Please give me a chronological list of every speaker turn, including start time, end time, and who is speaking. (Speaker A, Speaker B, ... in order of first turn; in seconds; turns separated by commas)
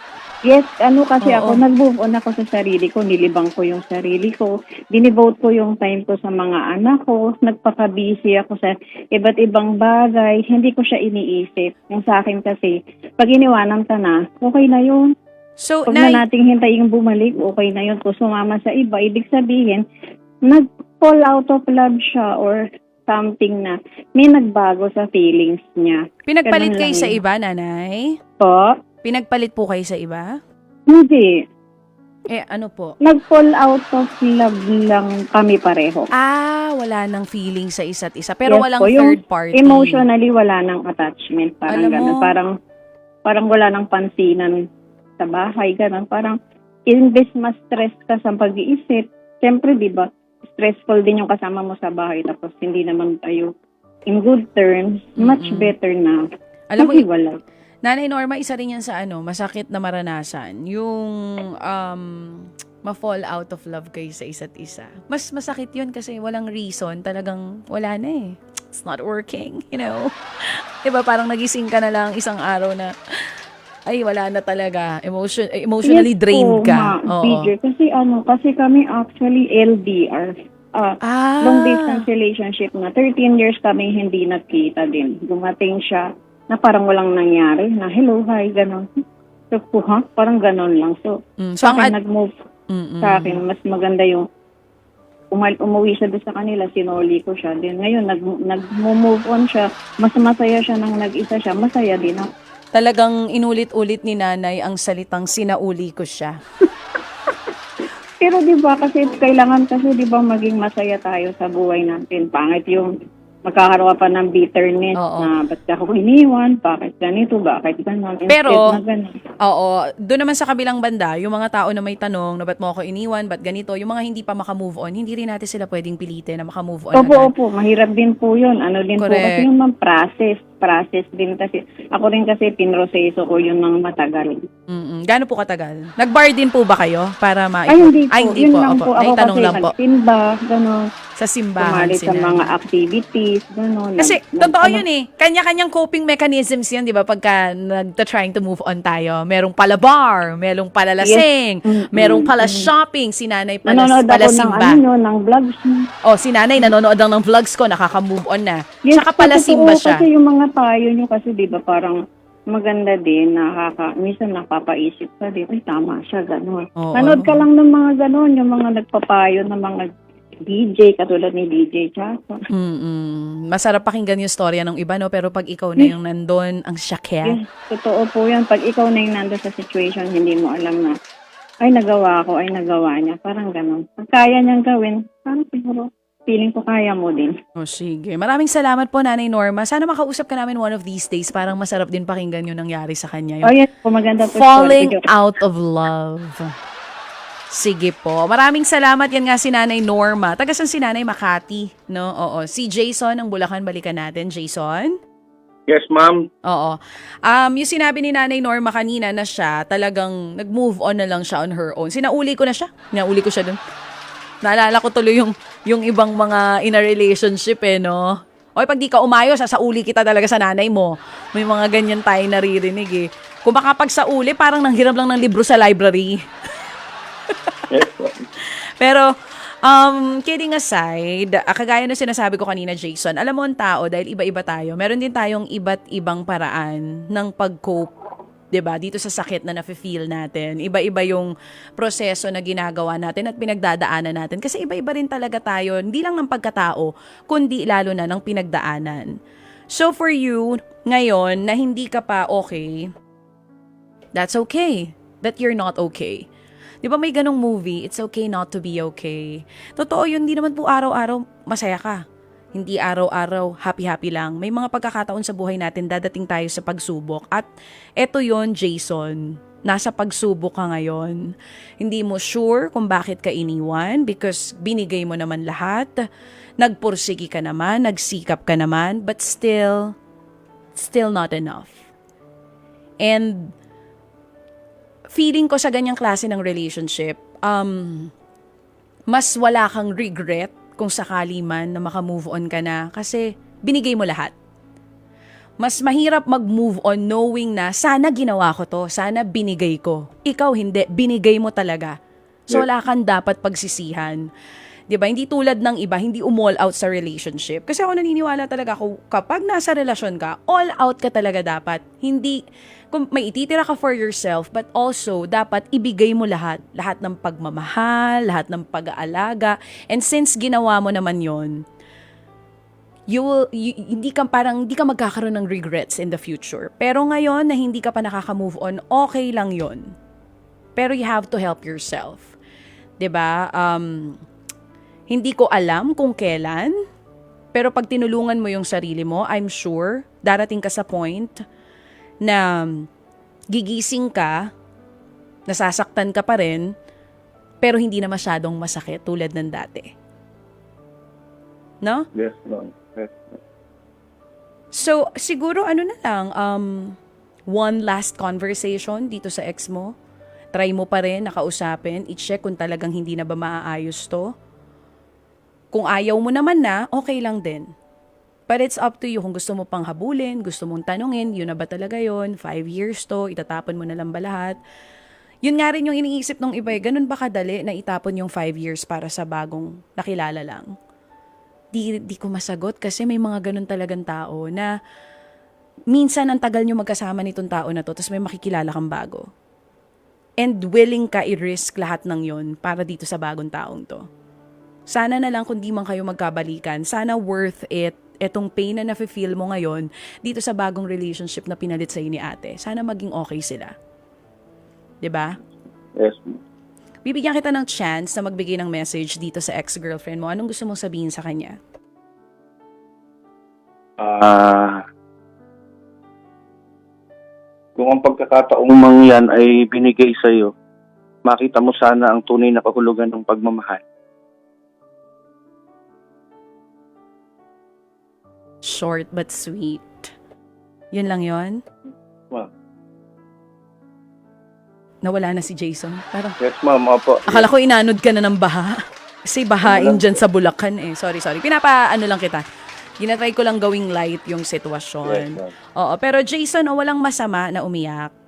Speaker A: 0.5-15.1, Speaker B: 1.2-1.6, Speaker B: 15.6-16.2, Speaker A: 15.9-19.8, Speaker A: 20.4-27.2, Speaker B: 26.3-28.1, Speaker A: 28.4-28.8, Speaker B: 29.0-30.3, Speaker A: 30.9-31.4, Speaker B: 32.3-33.0, Speaker A: 33.0-36.1, Speaker B: 36.1-40.0, Speaker A: 38.5-42.5, Speaker B: 41.7-42.3, Speaker A: 43.2-44.6, Speaker A: 45.2-53.5, Speaker A: 54.1-56.2, Speaker B: 55.2-55.7, Speaker B: 56.7-57.0, Speaker A: 56.8-57.4, Speaker B: 57.8-73.4, Speaker B: 73.9-77.5, Speaker A: 75.8-88.9, Speaker B: 81.0-82.0, Speaker A: 89.5-92.3, Speaker B: 91.4-91.9, Speaker B: 92.7-93.4, Speaker A: 93.0-94.2, Speaker A: 95.3-102.3, Speaker B: 102.7-106.4, Speaker A: 108.2-112.9, Speaker A: 113.5-119.2, Speaker B: 115.0-115.3, Speaker B: 118.3-118.8, Speaker B: 119.4-127.3, Speaker A: 127.0-134.4, Speaker B: 129.0-129.4, Speaker B: 134.7-139.7, Speaker A: 137.7-140.9, Speaker B: 141.2-142.5, Speaker A: 141.6-144.8, Speaker B: 144.0-154.8, Speaker A: 151.0-152.7, Speaker A: 153.7-155.9, Speaker B: 156.0-160.1, Speaker A: 158.9-162.0, Speaker A: 162.5-169.9, Speaker B: 166.8-167.4, Speaker A: 170.4-172.5, Speaker B: 172.5-177.4, Speaker A: 177.2-181.0, Speaker A: 181.6-187.3, Speaker B: 187.6-193.5, Speaker A: 193.4-195.1, Speaker B: 194.2-196.5, Speaker B: 197.5-204.9, Speaker C: 205.7-206.3, Speaker B: 206.5-213.6, Speaker B: 214.4-226.2, Speaker B: 227.3-227.5, Speaker C: 227.7-228.2, Speaker B: 228.8-229.1, Speaker B: 229.6-237.9, Speaker B: 238.5-249.1, Speaker B: 249.7-252.9, Speaker B: 254.1-256.2, Speaker B: 256.8-262.0, Speaker B: 262.5-267.5, Speaker B: 268.0-275.9, Speaker B: 276.6-279.9, Speaker B: 280.7-281.8, Speaker B: 283.0-283.5, Speaker B: 285.1-288.1, Speaker B: 289.1-294.3, Speaker B: 295.6-301.9, Speaker B: 302.5-304.2, Speaker B: 304.9-312.4, Speaker B: 312.9-321.6, Speaker B: 323.1-329.9, Speaker B: 330.8-332.3, Speaker B: 333.0-334.2, Speaker B: 335.1-336.8, Speaker B: 337.5-341.4, Speaker B: 342.2-342.9, Speaker B: 343.5-344.5, Speaker B: 345.5-346.7, Speaker B: 347.6-349.9, Speaker C: 352.1-353.4, Speaker B: 354.7-357.0, Speaker B: 357.5-359.9, Speaker B: 360.5-364.3, Speaker B: 365.7-367.7, Speaker B: 368.5-374.6, Speaker B: 375.4-380.7, Speaker B: 381.7-384.7, Speaker B: 385.9-389.3, Speaker B: 390.4-394.0, Speaker B: 394.9-403.7, Speaker B: 405.0-405.4, Speaker C: 405.9-406.4, Speaker B: 407.0-411.6, Speaker C: 414.0-414.8, Speaker C: 417.8-420.5, Speaker C: 421.2-423.8, Speaker B: 428.6-430.1, Speaker B: 430.9-431.6, Speaker B: 435.0-436.4, Speaker C: 436.4-437.4, Speaker B: 437.3-442.4, Speaker C: 439.6-440.2, Speaker B: 443.0-448.1, Speaker C: 445.0-445.5